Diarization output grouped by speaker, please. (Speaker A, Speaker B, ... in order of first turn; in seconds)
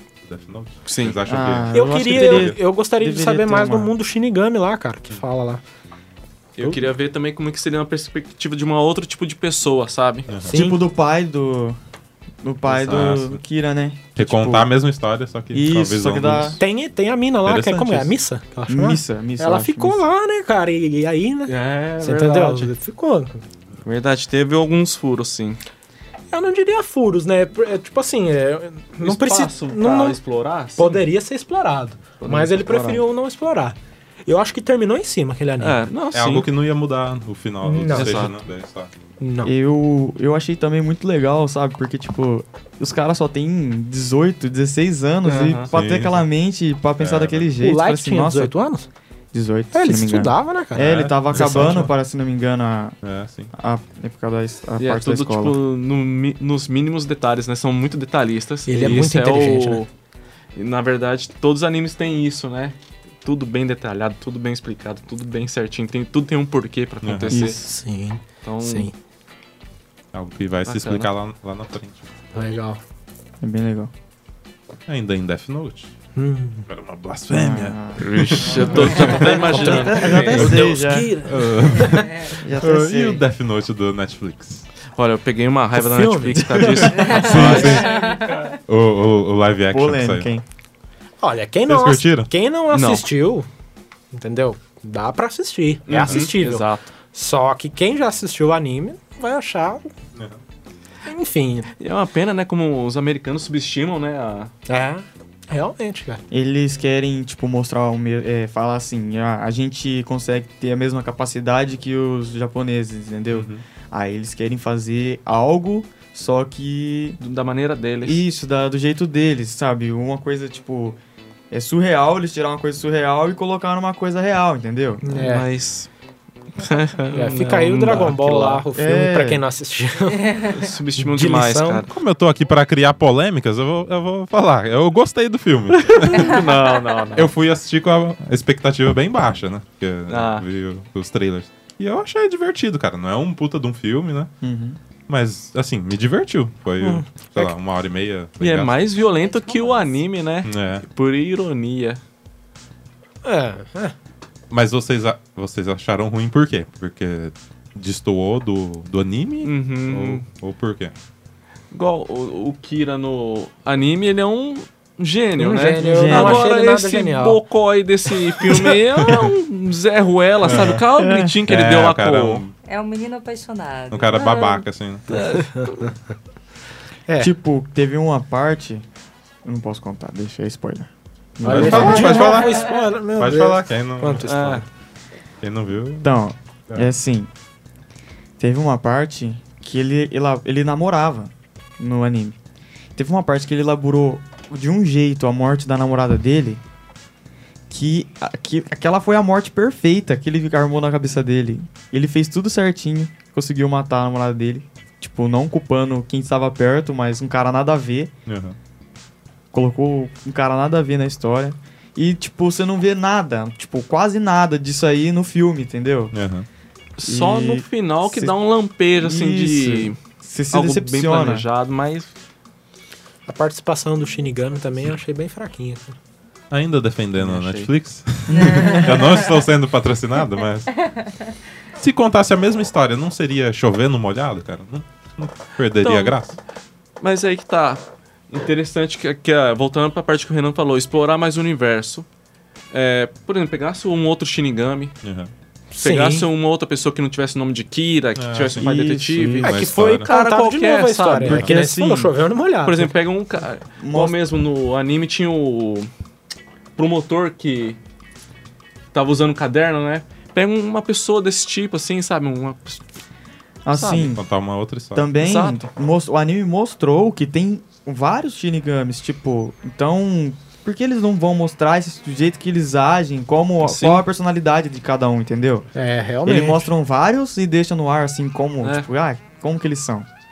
Speaker A: 0.2-2.6, 10.3-10.6, 12.8-13.4, 14.2-16.6, 17.4-18.1, 36.1-38.9, 45.7-46.2, 47.0-47.5, 50.8-51.9, 53.0-53.5, 67.0-67.3, 70.1-72.0, 74.9-75.9, 76.7-79.7, 80.3-80.6, 81.2-84.7, 86.6-88.0, 88.7-90.3, 91.7-92.3, 100.2-100.4, 113.3-113.6, 131.9-136.5, 137.1-144.3, 145.1-148.8, 150.4-150.8, 154.5-160.9, 170.4-170.8, 171.5-172.5, 173.9-175.1, 181.4-184.6, 185.4-186.2, 208.3-208.6, 216.1-216.5, 226.5-230.7, 231.8-236.4, 245.0-245.3, 248.2-248.7, 249.4-250.1, 264.1-265.1
Speaker B: 0.9-1.2, 6.6-10.8, 12.7-13.2, 21.5-22.7, 23.8-25.6, 29.0-31.0, 32.2-33.0, 35.6-36.5, 37.9-38.3, 45.2-45.7, 54.8-59.9, 60.6-67.6, 68.4-68.9, 70.7-71.1, 78.0-80.6, 85.0-87.9, 92.7-93.0, 95.9-96.9, 101.8-104.5, 117.2-118.2, 125.2-125.9, 126.5-128.6, 130.5-131.9, 135.7-137.3, 140.1-140.4, 148.4-152.0, 159.4-160.2, 161.7-172.4, 175.1-175.9, 184.2-184.7, 217.0-220.0, 220.5-222.1, 227.2-227.7, 235.8-236.2, 237.0-242.1, 242.7-245.0, 245.8-251.5, 252.6-255.9, 256.8-257.8, 258.9-262.8, 263.7-264.1, 265.2-265.6, 273.6-274.1, 278.6-278.9
Speaker C: 1.3-3.9, 10.5-11.8, 12.4-14.7, 15.5-16.6, 18.7-20.0, 39.4-48.5, 49.3-53.0, 53.5-55.6, 67.3-67.6, 73.4-73.9, 77.3-81.1, 82.3-83.2, 86.4-87.6, 89.7-90.4, 106.3-117.2, 118.0-121.0, 121.5-125.1, 128.7-129.4, 144.4-144.8, 165.8-166.5, 170.9-171.3, 177.2-178.8, 179.4-182.3, 186.0-187.3, 188.4-192.4, 193.0-196.6, 197.7-208.1, 209.5-216.1, 217.0-218.3, 219.0-221.4, 228.3-229.0, 248.6-249.6, 251.2-252.1, 253.8-254.2, 263.6-264.2, 264.9-275.7, 276.2-280.1
Speaker D: 1.7-5.6, 6.6-6.8, 16.6-23.4, 26.3-30.2, 30.8-35.8, 37.6-38.3, 39.2-39.5, 47.6-48.9, 49.7-51.9, 58.7-59.8, 67.3-68.9, 72.3-72.8, 76.2-76.7, 78.5-82.1, 85.7-86.8, 91.2-93.5, 94.1-99.9, 101.1-101.7, 104.7-106.2, 125.0-125.5, 127.1-130.5, 131.0-131.8, 146.8-147.5, 153.2-153.9, 165.4-167.4, 175.1-176.0, 181.4-184.6, 223.3-226.0, 245.7-246.3, 249.4-252.9, 275.8-276.7
Speaker E: 86.9-88.5, 148.9-150.1, 172.7-174.7, 182.1-182.5, 228.3-229.4, 230.8-231.2